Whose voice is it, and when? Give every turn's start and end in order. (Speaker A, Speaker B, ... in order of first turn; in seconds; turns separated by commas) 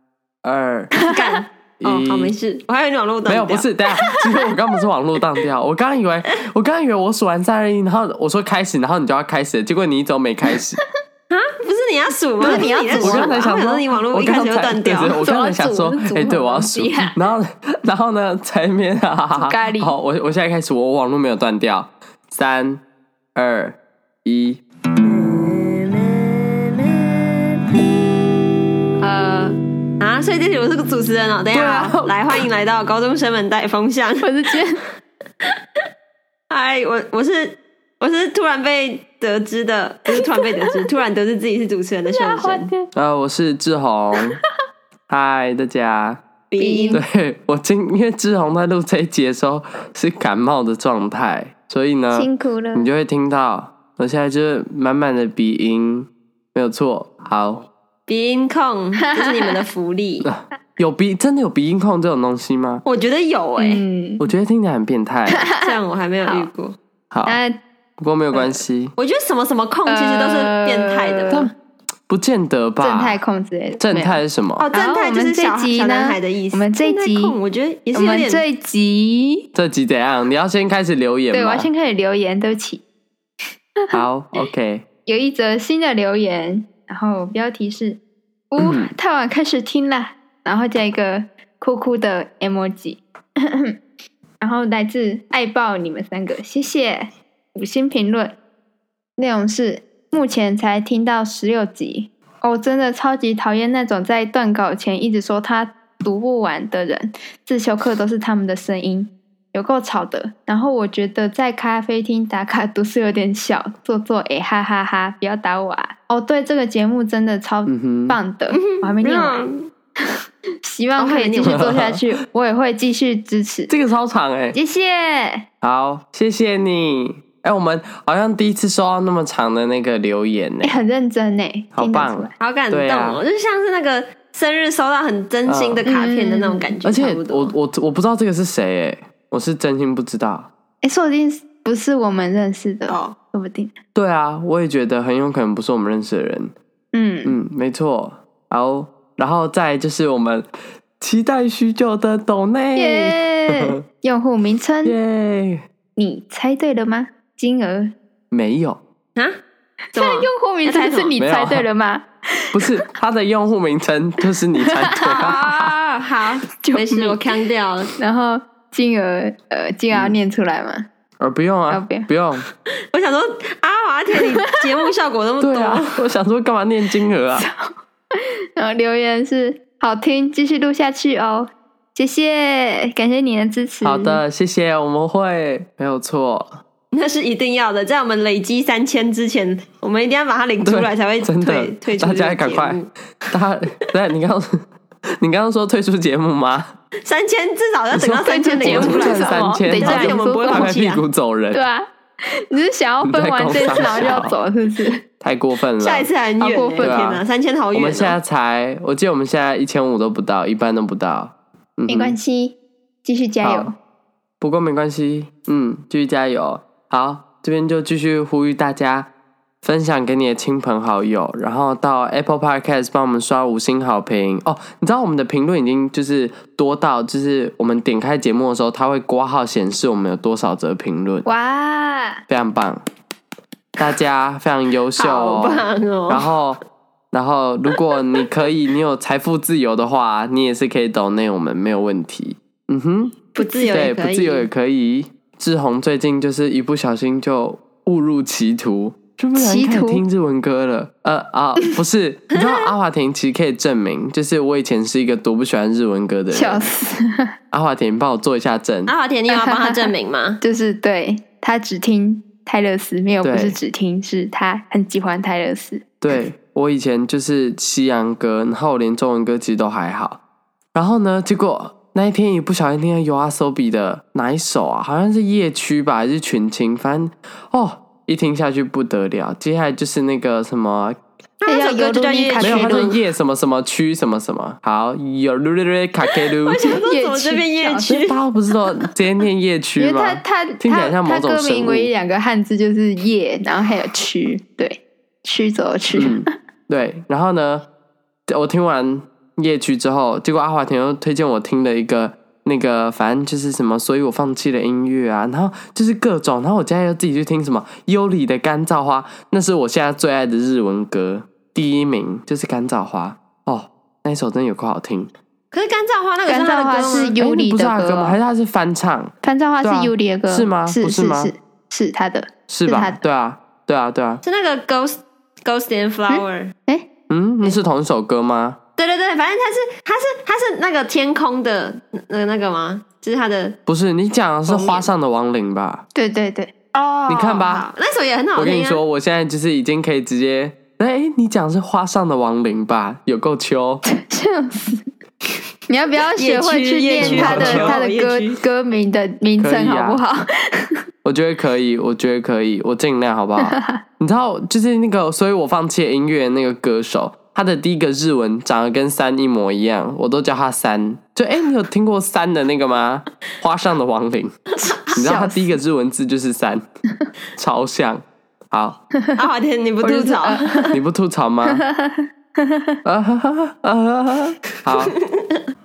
Speaker A: 0.4-0.9, Speaker B: 0.9-1.4, Speaker C: 1.1-3.7, Speaker A: 1.8-2.3, Speaker A: 3.2-10.8, Speaker C: 11.3-15.2, Speaker B: 12.4-13.6, Speaker A: 12.4-22.8, Speaker B: 15.1-17.1, Speaker B: 19.4-19.9, Speaker A: 23.3-24.6, Speaker C: 25.0-27.7, Speaker B: 29.0-29.5, Speaker C: 29.3-34.5, Speaker A: 31.5-32.1, Speaker B: 34.2-34.8, Speaker C: 36.5-42.7, Speaker B: 40.1-40.7, Speaker B: 42.1-42.9, Speaker A: 42.9-44.4, Speaker A: 45.1-46.2, Speaker C: 46.5-47.0, Speaker B: 46.6-47.0, Speaker A: 46.9-57.6, Speaker B: 52.1-52.9, Speaker C: 58.1-60.3, Speaker B: 59.0-59.6, Speaker A: 60.2-62.8, Speaker C: 62.8-63.8, Speaker B: 63.6-64.3, Speaker A: 64.2-65.5, Speaker B: 65.3-65.6, Speaker C: 65.5-66.8, Speaker B: 66.2-66.5, Speaker A: 67.1-67.4, Speaker B: 67.2-67.6, Speaker A: 68.0-68.9, Speaker B: 68.3-68.6, Speaker C: 69.0-71.5, Speaker B: 69.8-71.5, Speaker A: 72.1-73.2, Speaker B: 72.8-74.2, Speaker A: 73.8-74.7, Speaker C: 74.6-78.4, Speaker B: 74.7-77.4, Speaker B: 77.9-79.5, Speaker A: 79.5-81.7, Speaker B: 81.3-82.8, Speaker A: 83.9-84.8, Speaker B: 85.0-88.0, Speaker B: 88.5-93.0, Speaker A: 88.6-88.9, Speaker B: 94.4-98.3, Speaker B: 99.2-119.4, Speaker A: 117.7-118.2, Speaker C: 118.5-119.7, Speaker B: 120.6-123.7, Speaker C: 121.0-121.7, Speaker A: 121.4-122.0, Speaker A: 123.7-124.6, Speaker B: 124.5-125.4, Speaker A: 125.6-130.8, Speaker B: 130.6-132.3, Speaker A: 131.7-133.2, Speaker C: 132.4-137.5, Speaker A: 135.4-135.8, Speaker B: 135.8-136.8, Speaker A: 136.8-140.5, Speaker B: 140.8-143.7, Speaker C: 142.9-143.1, Speaker A: 143.9-146.5, Speaker B: 146.9-147.4, Speaker A: 147.2-150.5, Speaker A: 151.0-153.8, Speaker B: 152.8-154.9, Speaker A: 154.8-155.6, Speaker B: 155.9-157.9, Speaker A: 158.3-158.8, Speaker B: 159.9-162.1, Speaker C: 159.9-161.1, Speaker A: 161.2-161.7, Speaker A: 162.5-165.7, Speaker B: 164.6-165.4, Speaker C: 165.0-167.9, Speaker B: 166.6-167.3, Speaker B: 168.0-170.8, Speaker A: 171.2-172.4, Speaker B: 171.7-172.1, Speaker C: 172.9-176.0, Speaker A: 175.4-177.4, Speaker B: 177.3-177.7, Speaker B: 178.6-184.2, Speaker A: 183.8-186.6, Speaker C: 186.9-192.9, Speaker A: 190.6-194.6, Speaker A: 195.2-196.7, Speaker C: 197.0-201.0, Speaker A: 197.9-201.6, Speaker B: 198.2-200.7, Speaker B: 201.5-201.9, Speaker B: 202.5-205.0, Speaker A: 203.0-204.4, Speaker C: 203.7-204.1, Speaker A: 205.2-206.1, Speaker C: 205.8-208.2, Speaker B: 206.4-207.0, Speaker A: 206.8-207.2, Speaker A: 207.7-212.2, Speaker B: 211.9-213.7, Speaker A: 213.4-213.7, Speaker A: 214.4-219.1, Speaker A: 219.6-231.3, Speaker B: 231.2-232.2, Speaker A: 232.3-232.8, Speaker A: 233.8-236.6, Speaker C: 235.0-236.2, Speaker A: 237.1-256.7, Speaker C: 243.3-244.5, Speaker B: 243.4-243.9, Speaker B: 249.3-250.0, Speaker C: 252.3-252.7, Speaker B: 256.3-257.3, Speaker A: 257.5-258.9, Speaker C: 258.9-260.4, Speaker B: 259.3-265.9, Speaker A: 263.2-263.6, Speaker A: 266.0-270.2, Speaker A: 270.7-281.0, Speaker C: 281.4-282.9, Speaker B: 281.5-283.0, Speaker A: 282.4-286.6, Speaker C: 286.4-288.2, Speaker B: 286.7-287.9, Speaker A: 287.9-291.9, Speaker B: 289.8-296.3, Speaker A: 295.9-297.6, Speaker A: 298.3-315.1, Speaker C: 315.5-317.1, Speaker B: 316.2-318.2, Speaker A: 317.2-321.3, Speaker B: 319.2-323.0, Speaker A: 322.5-324.2, Speaker C: 324.2-326.5, Speaker B: 326.1-326.9, Speaker A: 327.1-328.6, Speaker C: 328.8-333.6, Speaker A: 333.7-335.8, Speaker C: 334.4-334.9, Speaker B: 335.9-336.5, Speaker C: 336.7-338.8, Speaker A: 337.1-337.6, Speaker A: 338.4-343.8, Speaker B: 343.8-344.8, Speaker B: 345.7-350.8, Speaker C: 346.2-348.4, Speaker A: 347.0-347.8, Speaker A: 349.4-350.0, Speaker A: 351.0-364.3, Speaker B: 353.4-353.8, Speaker C: 364.7-364.9, Speaker B: 364.9-365.6, Speaker A: 364.9-366.6, Speaker A: 367.4-368.8, Speaker B: 368.9-369.2, Speaker C: 369.2-370.8, Speaker B: 369.8-370.8, Speaker A: 370.7-371.6, Speaker B: 371.5-372.7, Speaker A: 372.8-374.9, Speaker C: 375.1-375.4